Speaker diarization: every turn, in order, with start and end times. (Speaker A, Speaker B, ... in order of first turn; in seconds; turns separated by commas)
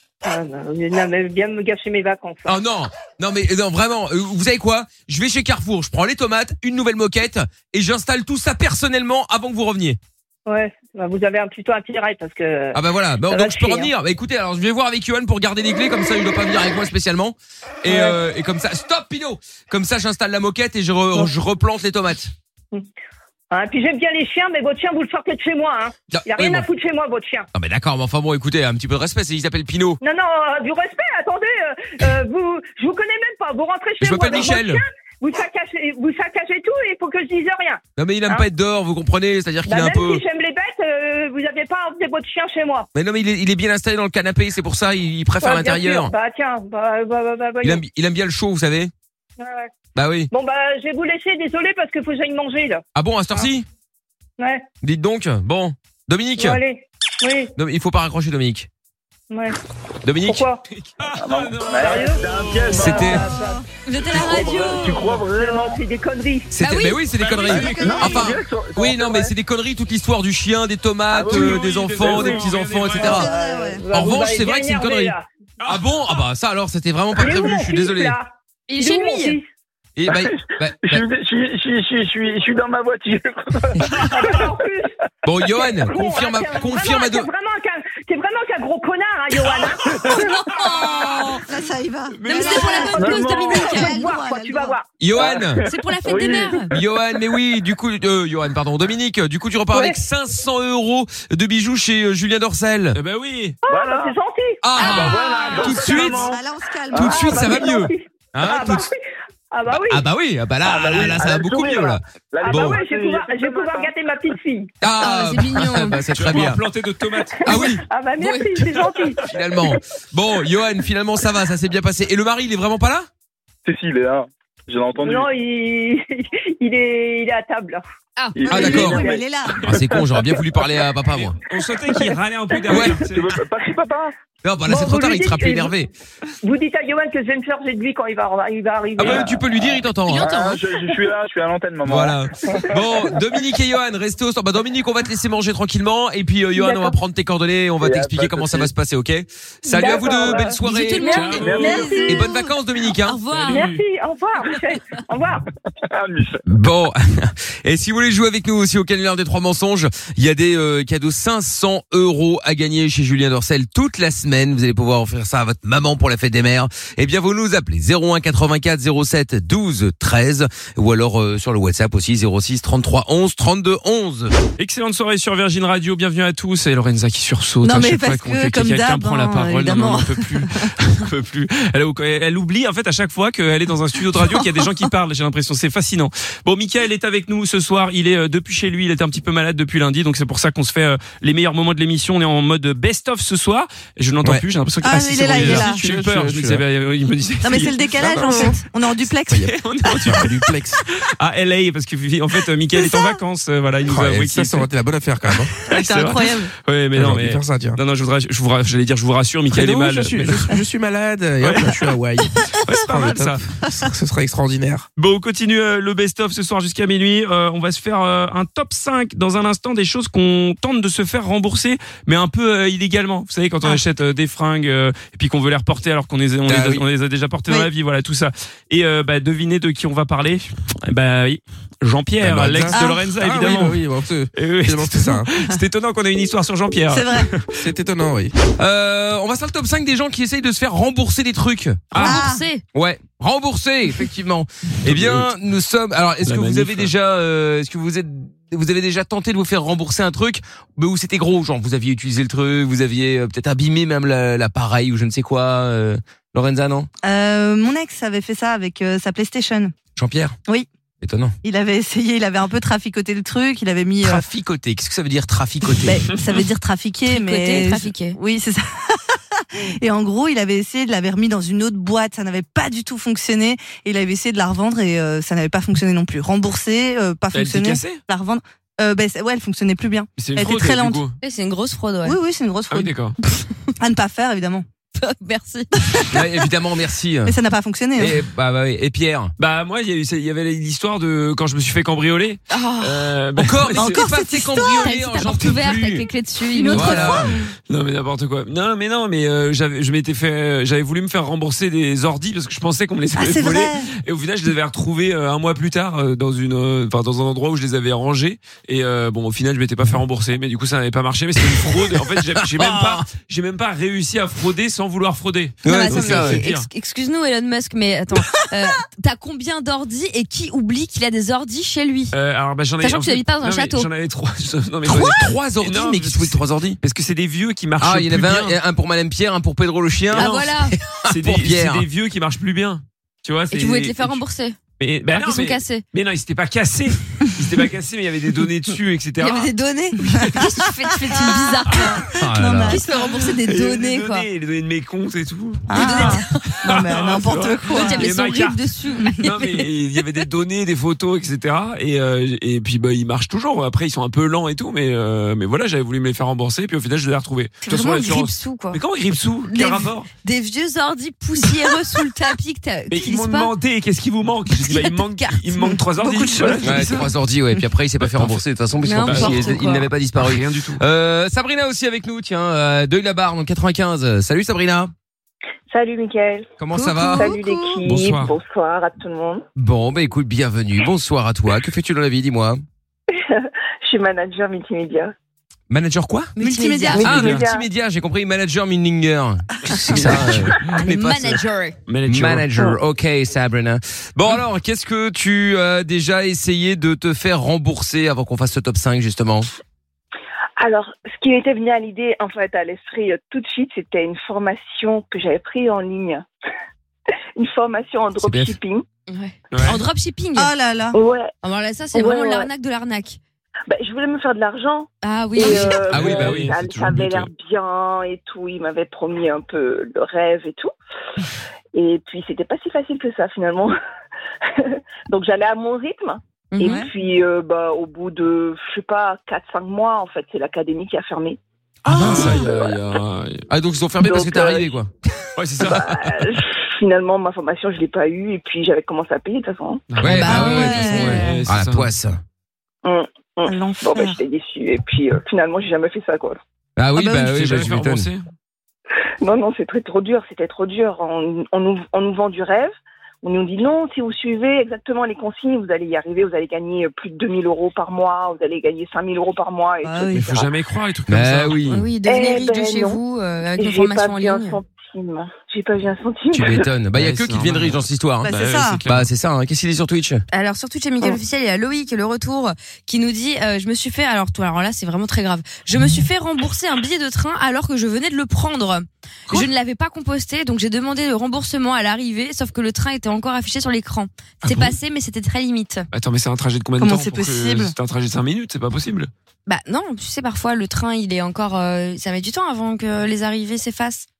Speaker A: 0.2-2.6, Speaker B: 2.4-10.0, Speaker A: 10.4-13.9, Speaker B: 12.7-22.3, Speaker A: 17.8-18.2, Speaker A: 23.5-27.5, Speaker B: 26.1-26.7, Speaker B: 27.5-30.0, Speaker A: 30.0-38.5, Speaker B: 34.0-34.8, Speaker B: 38.0-40.2, Speaker A: 39.6-42.9, Speaker B: 42.9-46.1, Speaker A: 45.4-47.8, Speaker B: 47.6-48.9, Speaker A: 49.4-49.7, Speaker B: 49.9-50.3, Speaker A: 50.3-52.8, Speaker B: 52.9-53.6, Speaker A: 54.4-54.6, Speaker B: 54.8-56.6, Speaker A: 56.4-57.5, Speaker B: 57.6-58.7, Speaker A: 59.3-59.6, Speaker B: 60.0-60.4, Speaker A: 60.2-60.6, Speaker C: 60.7-62.8, Speaker D: 61.2-63.3, Speaker A: 61.8-66.5, Speaker B: 62.7-63.2, Speaker E: 63.9-65.0, Speaker D: 64.1-65.8, Speaker B: 66.5-73.3, Speaker E: 66.6-66.9, Speaker C: 67.0-68.3, Speaker D: 67.5-69.3, Speaker D: 71.1-72.5, Speaker C: 71.2-73.3, Speaker F: 73.0-73.9, Speaker A: 73.2-75.2, Speaker B: 73.9-75.1, Speaker C: 75.6-76.2, Speaker B: 75.7-78.2, Speaker A: 77.2-79.5, Speaker E: 78.7-79.4, Speaker B: 80.0-81.0, Speaker D: 80.1-84.6, Speaker C: 83.9-84.2, Speaker A: 84.0-84.9, Speaker B: 85.2-87.3, Speaker A: 85.5-90.1, Speaker E: 90.2-91.4, Speaker F: 91.0-94.7, Speaker C: 92.2-93.0, Speaker E: 92.2-94.0, Speaker A: 92.7-94.9, Speaker D: 92.9-93.7, Speaker B: 95.0-95.6, Speaker D: 95.2-96.6, Speaker E: 95.6-96.7, Speaker A: 96.1-96.5, Speaker B: 96.7-103.0, Speaker A: 99.7-100.0, Speaker C: 102.9-103.6, Speaker A: 103.6-106.1, Speaker D: 103.7-104.2, Speaker B: 104.6-106.4, Speaker E: 104.8-105.5, Speaker D: 104.8-107.5, Speaker F: 106.2-107.5, Speaker B: 106.9-108.9, Speaker A: 107.0-109.0, Speaker A: 109.5-110.0, Speaker B: 109.7-112.8, Speaker D: 110.6-113.9, Speaker A: 112.4-114.7, Speaker B: 114.8-116.6, Speaker E: 114.9-116.5, Speaker C: 116.1-117.7, Speaker B: 117.5-117.8, Speaker A: 117.5-119.2, Speaker E: 118.2-118.6, Speaker B: 119.3-123.1, Speaker D: 123.6-125.3, Speaker A: 125.0-127.8, Speaker E: 128.2-128.5, Speaker D: 128.3-129.8, Speaker A: 128.5-129.2, Speaker B: 128.5-129.1, Speaker F: 128.6-129.6, Speaker B: 129.6-131.3, Speaker C: 131.1-133.3, Speaker B: 132.7-133.0, Speaker D: 132.7-134.1, Speaker B: 134.4-135.9, Speaker A: 134.7-135.7, Speaker A: 136.4-139.3, Speaker B: 139.0-140.5, Speaker D: 139.0-139.3, Speaker D: 140.1-143.1, Speaker B: 141.8-153.2, Speaker A: 146.5-146.9, Speaker D: 147.8-148.7, Speaker A: 149.6-152.2, Speaker D: 149.8-150.4, Speaker E: 150.7-152.0, Speaker C: 151.0-151.9, Speaker D: 151.3-151.8, Speaker F: 151.5-152.5, Speaker E: 153.0-153.7, Speaker C: 153.3-153.8, Speaker A: 153.5-155.4, Speaker D: 155.8-156.4, Speaker B: 156.4-174.3, Speaker C: 174.6-198.7, Speaker F: 177.6-180.7, Speaker F: 184.2-184.5, Speaker F: 194.8-195.8, Speaker G: 195.3-196.6, Speaker F: 197.4-200.2, Speaker C: 199.3-204.7, Speaker G: 200.0-200.8, Speaker F: 202.8-203.1, Speaker G: 203.8-205.5, Speaker F: 205.6-206.5, Speaker C: 205.6-210.6, Speaker G: 206.9-207.8, Speaker G: 209.5-212.3, Speaker C: 211.4-211.9, Speaker F: 212.4-213.0, Speaker C: 212.6-213.4, Speaker G: 212.9-214.9, Speaker C: 215.0-233.8, Speaker B: 226.5-226.8, Speaker G: 232.2-235.3, Speaker F: 232.7-233.1, Speaker C: 234.3-237.6, Speaker F: 236.9-237.3, Speaker G: 237.6-238.3, Speaker B: 238.6-242.0, Speaker C: 241.9-242.2, Speaker E: 241.9-242.6, Speaker F: 242.0-242.4, Speaker B: 242.7-256.9, Speaker C: 244.8-245.3, Speaker C: 246.2-246.9, Speaker F: 257.0-259.7, Speaker B: 259.9-260.4, Speaker B: 261.0-261.3, Speaker F: 261.4-264.2, Speaker B: 264.0-266.0, Speaker F: 265.7-281.1, Speaker C: 266.1-266.4, Speaker E: 267.1-268.2, Speaker C: 277.3-278.0, Speaker C: 280.2-281.1, Speaker E: 281.2-282.2, Speaker F: 282.0-283.0, Speaker C: 282.7-283.1, Speaker F: 283.8-284.6, Speaker E: 285.0-285.7, Speaker F: 285.7-286.2, Speaker B: 286.1-287.3, Speaker F: 287.2-288.2, Speaker B: 288.0-289.3, Speaker C: 289.4-294.0, Speaker E: 292.5-293.1, Speaker B: 293.4-296.1, Speaker F: 293.8-295.0, Speaker E: 294.6-297.2, Speaker F: 296.5-297.4, Speaker B: 296.7-297.3, Speaker C: 297.7-316.7, Speaker F: 303.1-303.9, Speaker B: 312.4-313.0, Speaker B: 315.6-316.4, Speaker E: 315.6-322.1, Speaker C: 322.1-328.6, Speaker E: 322.8-323.9, Speaker B: 324.8-326.8, Speaker B: 327.8-331.8, Speaker E: 330.1-330.8, Speaker C: 330.1-330.5, Speaker C: 331.0-334.2, Speaker E: 333.5-334.6, Speaker C: 334.8-339.5, Speaker E: 335.1-335.8, Speaker E: 339.2-342.0, Speaker F: 340.1-343.8, Speaker C: 340.2-340.5, Speaker C: 341.7-341.9, Speaker B: 342.2-342.8, Speaker E: 342.7-344.2, Speaker C: 343.0-360.1, Speaker F: 345.7-348.1, Speaker E: 345.7-346.6, Speaker E: 347.7-349.7, Speaker E: 357.7-358.8, Speaker E: 359.5-363.5, Speaker F: 361.4-361.7, Speaker C: 362.9-367.1, Speaker E: 364.6-365.7, Speaker F: 365.6-366.9, Speaker B: 366.6-374.9, Speaker C: 368.0-368.3, Speaker E: 368.8-369.9, Speaker C: 369.0-369.6, Speaker C: 370.1-370.8, Speaker H: 375.7-376.5, Speaker B: 376.6-377.3, Speaker E: 376.7-377.4, Speaker F: 377.0-377.7, Speaker H: 377.1-379.4, Speaker C: 377.8-378.3, Speaker B: 377.9-378.2, Speaker B: 379.6-382.6, Speaker H: 383.1-385.1, Speaker B: 385.7-386.3, Speaker E: 386.4-387.3, Speaker F: 386.4-387.3, Speaker H: 387.0-387.7, Speaker B: 387.0-391.4, Speaker C: 387.0-387.4, Speaker F: 389.7-390.1, Speaker C: 390.0-390.3, Speaker E: 390.8-391.7, Speaker C: 391.9-392.5, Speaker B: 392.1-399.5, Speaker H: 400.6-406.2, Speaker H: 407.4-408.8, Speaker B: 408.2-408.5, Speaker E: 409.1-410.5, Speaker C: 409.5-409.8, Speaker F: 410.4-411.0, Speaker H: 410.9-411.3, Speaker E: 411.4-413.2, Speaker H: 411.9-412.5, Speaker H: 413.7-420.7, Speaker E: 415.0-415.8, Speaker B: 415.9-416.5, Speaker C: 415.9-417.3, Speaker H: 421.7-423.7, Speaker H: 424.5-431.4, Speaker E: 426.5-426.9, Speaker F: 426.6-426.9, Speaker F: 431.9-432.5, Speaker B: 431.9-432.5, Speaker C: 431.9-433.4, Speaker H: 432.2-432.7, Speaker B: 433.5-434.9, Speaker H: 434.0-434.7, Speaker C: 435.4-436.0, Speaker H: 435.6-439.8, Speaker C: 439.9-441.9, Speaker B: 440.0-442.2, Speaker F: 440.2-441.4, Speaker E: 440.3-440.7, Speaker H: 442.8-446.4, Speaker F: 443.4-444.2, Speaker B: 446.8-448.1, Speaker C: 447.1-448.2, Speaker H: 449.2-460.5, Speaker F: 459.8-460.4, Speaker C: 460.1-461.8, Speaker B: 461.1-461.9, Speaker E: 461.7-464.6, Speaker H: 462.0-463.0, Speaker H: 463.6-466.7, Speaker B: 466.3-470.2, Speaker C: 466.9-469.1, Speaker F: 468.2-468.8, Speaker E: 470.3-485.8, Speaker C: 484.4-484.8, Speaker C: 485.9-489.1, Speaker F: 486.8-487.7, Speaker E: 489.5-494.1